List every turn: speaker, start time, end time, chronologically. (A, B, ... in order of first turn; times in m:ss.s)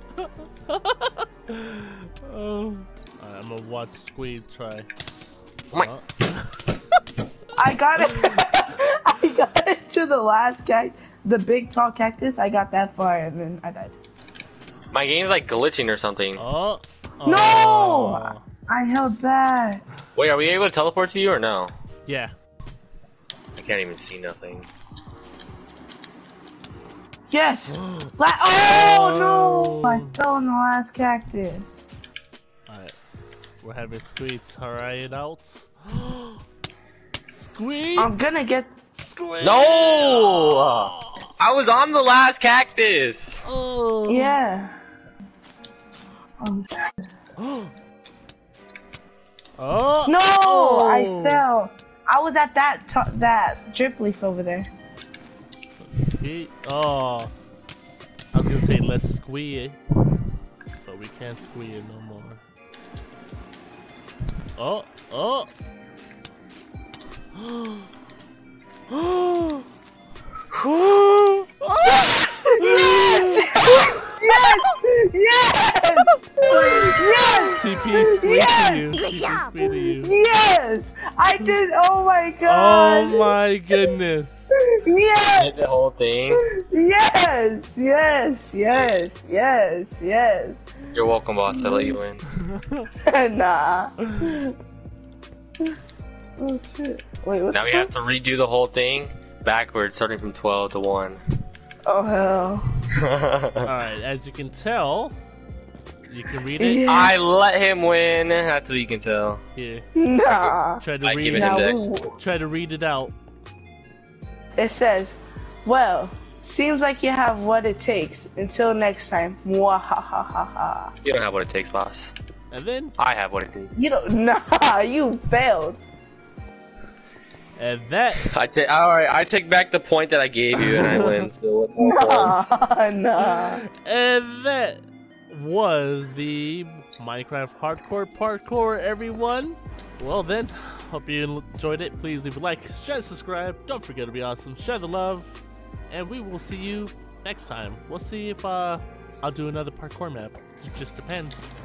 0:00.2-0:04.9 A
0:05.7-0:06.7 A
0:07.6-0:14.0 B
0:08.1-0:08.4 A
0:14.9-0:16.4 C
0:16.4-0:18.4 A
0:17.2-0:19.8 B
0:20.1-0:21.7 C
0:22.0-0:22.3 A
0:23.6-0:24.7 C
0:27.3-0:31.8 B
0:27.7-0:30.0 A
0:32.7-0:33.0 A
0:33.6-0:36.4 A
0:37.2-0:38.1 A
0:38.0-0:38.7 B
0:38.9-0:41.2 A
0:39.4-0:43.4 C
0:43.4-0:44.4 A
0:44.1-0:44.8 B
0:46.4-0:46.7 B
0:47.4-0:47.7 A
0:49.6-0:51.4 A
0:50.0-0:54.7 B
0:55.8-0:57.3 A
0:58.3-0:59.8 A
1:00.8-1:02.4 A
1:04.6-1:05.5 A
1:07.4-1:07.9 A
1:08.9-1:09.6 A
1:10.5-1:13.8 A
1:11.9-1:23.3 B
1:16.5-1:20.1 A
1:22.4-1:24.5 A
1:24.7-1:25.8 B
1:25.3-1:26.4 C
1:26.3-1:30.6 B
1:30.9-1:32.2 C
1:31.5-1:32.0 B
1:33.0-1:34.5 B
1:36.4-1:37.9 B
1:37.5-1:41.2 C
1:41.8-1:42.8 B
1:42.9-1:43.7 C
1:43.6-1:45.2 A
1:46.1-1:46.8 A
1:46.6-1:47.1 B
1:46.8-1:49.4 C
1:49.6-1:49.8 A
1:49.9-1:52.2 B
1:50.2-1:51.8 C
1:50.8-1:53.1 A
1:54.6-2:00.9 B
2:01.0-2:02.1 C
2:02.5-2:03.0 A
2:03.0-2:03.9 C
2:03.7-2:05.8 B
2:07.6-2:08.3 A
2:08.2-2:12.4 C
2:10.6-2:11.2 A
2:11.8-2:13.6 B
2:13.3-2:25.4 A
2:25.9-2:31.5 A